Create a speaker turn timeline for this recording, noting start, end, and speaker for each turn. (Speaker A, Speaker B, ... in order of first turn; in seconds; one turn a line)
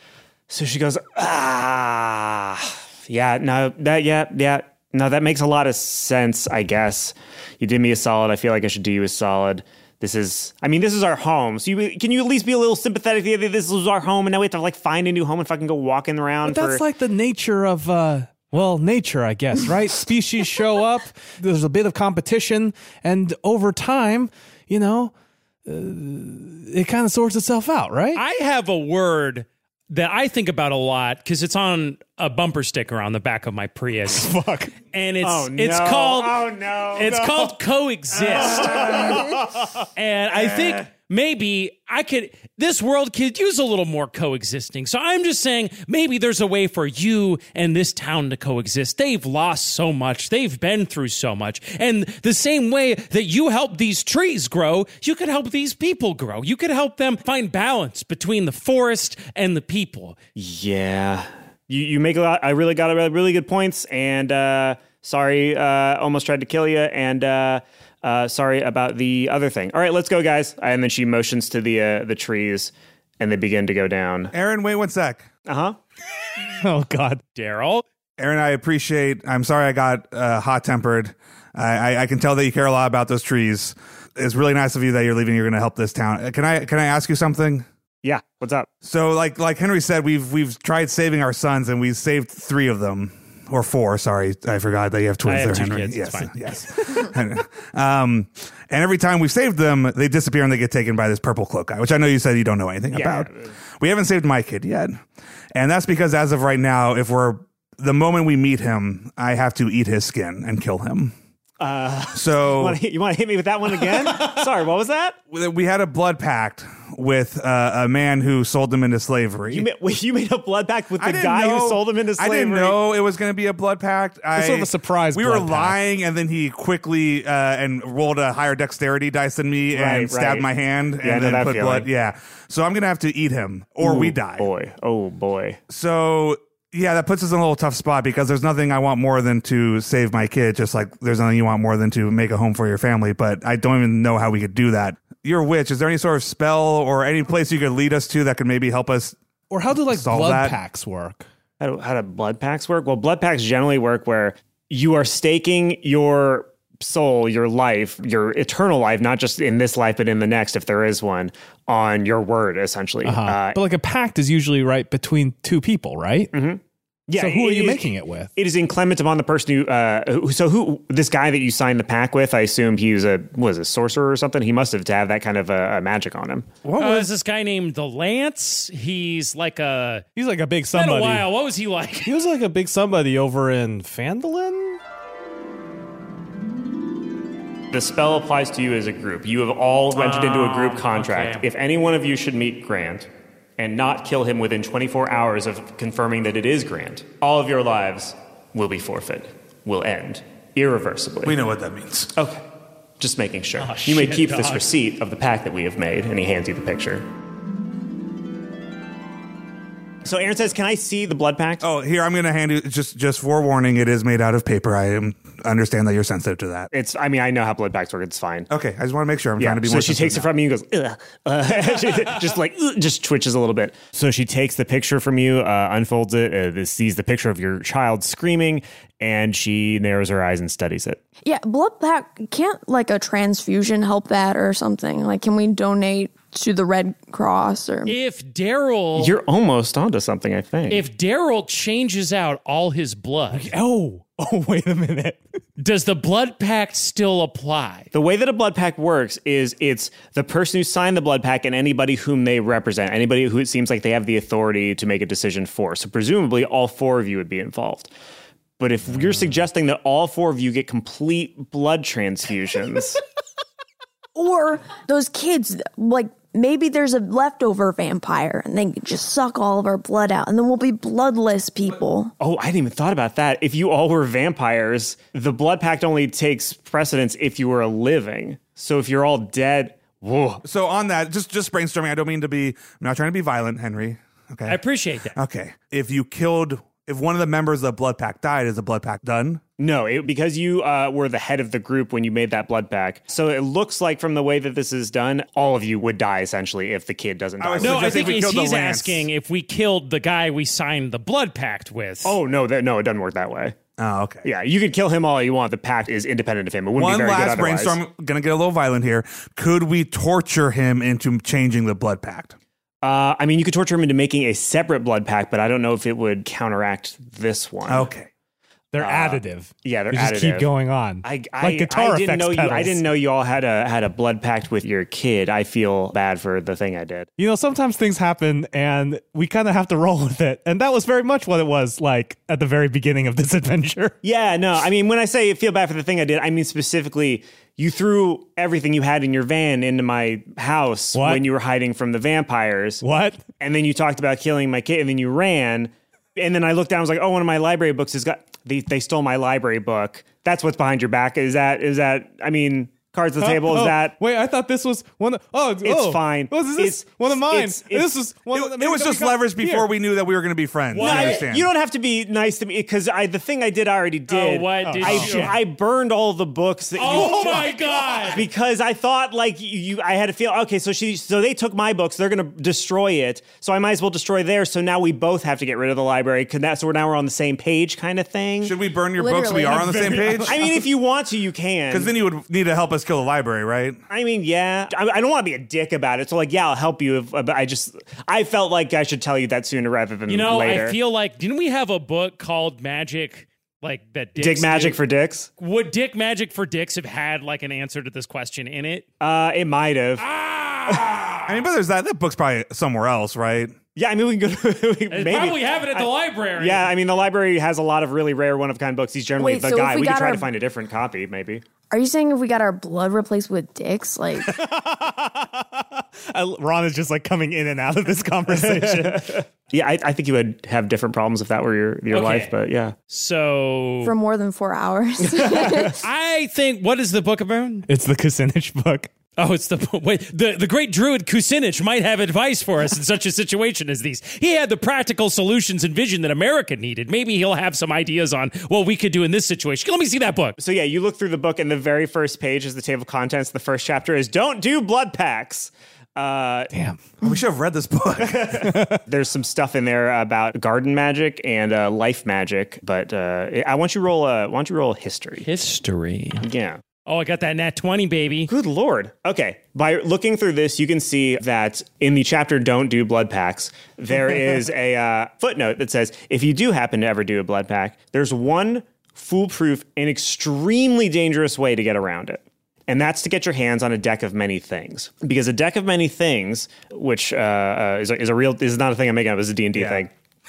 Speaker A: 0.5-16.8
Speaker B: 16.4-25.1
Speaker B: 25.6-28.2
Speaker C: 28.1-34.3
Speaker B: 34.1-34.7
Speaker C: 34.9-39.4
Speaker A: 35.2-37.3
Speaker A: 38.3-39.2
Speaker C: 40.0-60.2
Speaker A: 40.4-40.8
Speaker A: 60.4-74.3
Speaker D: 74.3-75.3
Speaker A: 75.5-75.8
Speaker B: 76.6-77.2
Speaker C: 77.3-77.8
Speaker D: 78.2-87.7
Speaker A: 88.0-88.7
Speaker D: 88.8-105.0
Speaker C: 95.2-96.3
Speaker A: 102.9-103.5
Speaker D: 105.5-111.1
Speaker A: 111.6-115.2
Speaker D: 112.1-112.8
Speaker D: 115.3-119.7
Speaker A: 119.5-122.8
Speaker D: 121.0-134.5
Speaker B: 124.3-125.8
Speaker A: 129.7-130.5
Speaker A: 131.0-131.9
Speaker A: 133.8-135.6
Speaker D: 135.7-149.2
Speaker B: 149.5-151.2
Speaker D: 149.7-150.6
Speaker A: 151.6-163.6
Speaker B: 163.0-166.3
Speaker A: 166.3-167.8
Speaker B: 167.2-168.3
Speaker A: 168.3-176.5
Speaker B: 176.6-177.1
Speaker C: 176.8-180.0
Speaker B: 180.2-181.3
Speaker C: 180.7-182.1
Speaker B: 182.0-184.8
Speaker A: 187.7-201.3
Speaker C: 189.9-191.4
Speaker D: 201.2-202.1
Speaker A: 202.2-202.4
Speaker A: 203.0-207.0
Speaker B: 203.6-204.6
Speaker A: 210.0-211.6
Speaker D: 211.6-216.7
Speaker A: 216.7-218.5
Speaker D: 218.5-220.3
Speaker A: 219.4-231.0
Speaker E: 231.2-237.9
Speaker C: 237.8-239.1
Speaker A: 238.9-240.8
Speaker C: 240.7-243.5
Speaker B: 243.3-245.2
Speaker C: 245.6-247.9
Speaker A: 247.9-257.9
Speaker A: 258.6-263.0
Speaker E: 264.1-272.1
Speaker A: 272.2-280.4
Speaker D: 280.4-284.6
Speaker C: 284.5-285.1
Speaker D: 285.1-289.4
Speaker A: 289.6-298.1
Speaker D: 297.4-299.1
Speaker C: 297.6-302.2
Speaker A: 302.0-303.5
Speaker D: 303.8-304.3
Speaker A: 304.2-307.8
Speaker D: 306.8-312.3
Speaker A: 312.8-317.9
Speaker D: 317.7-318.1
Speaker B: 318.7-322.9
Speaker A: 318.8-320.5
Speaker A: 321.0-327.1
Speaker B: 327.2-333.9
Speaker A: 334.0-342.8
Speaker B: 340.9-341.2
Speaker B: 342.8-343.2
Speaker A: 343.4-353.9
Speaker B: 353.2-359.7
Speaker A: 355.6-357.9
Speaker D: 358.3-361.5
Speaker C: 360.7-361.3
Speaker A: 360.8-378.5
Speaker C: 364.1-365.4
Speaker B: 364.6-365.4
Speaker C: 366.8-368.3
Speaker D: 378.4-380.4
Speaker E: 378.9-380.4
Speaker A: 380.2-381.9
Speaker D: 381.7-383.8
Speaker A: 383.9-390.8
Speaker C: 390.1-394.8
Speaker A: 394.2-395.3
Speaker C: 395.4-398.9
Speaker A: 399.0-400.0
Speaker C: 400.0-401.2
Speaker A: 400.7-401.1
Speaker D: 401.3-403.6
Speaker A: 403.7-411.4
Speaker C: 404.9-406.7
Speaker E: 409.2-410.3
Speaker E: 411.7-414.3
Speaker B: 414.2-419.2
Speaker A: 418.3-422.7
Speaker C: 421.9-422.3
Speaker C: 422.9-423.9
Speaker E: 423.8-425.8
Speaker A: 425.1-425.8
Speaker C: 425.8-427.7
Speaker B: 427.7-428.9
Speaker C: 429.2-440.4
Speaker A: 440.4-446.5
Speaker B: 446.5-446.8
Speaker D: 447.0-448.4
Speaker A: 448.0-455.3
Speaker B: 448.4-448.8
Speaker C: 455.2-456.2
Speaker A: 456.2-456.6
Speaker C: 456.9-458.3
Speaker A: 458.3-479.9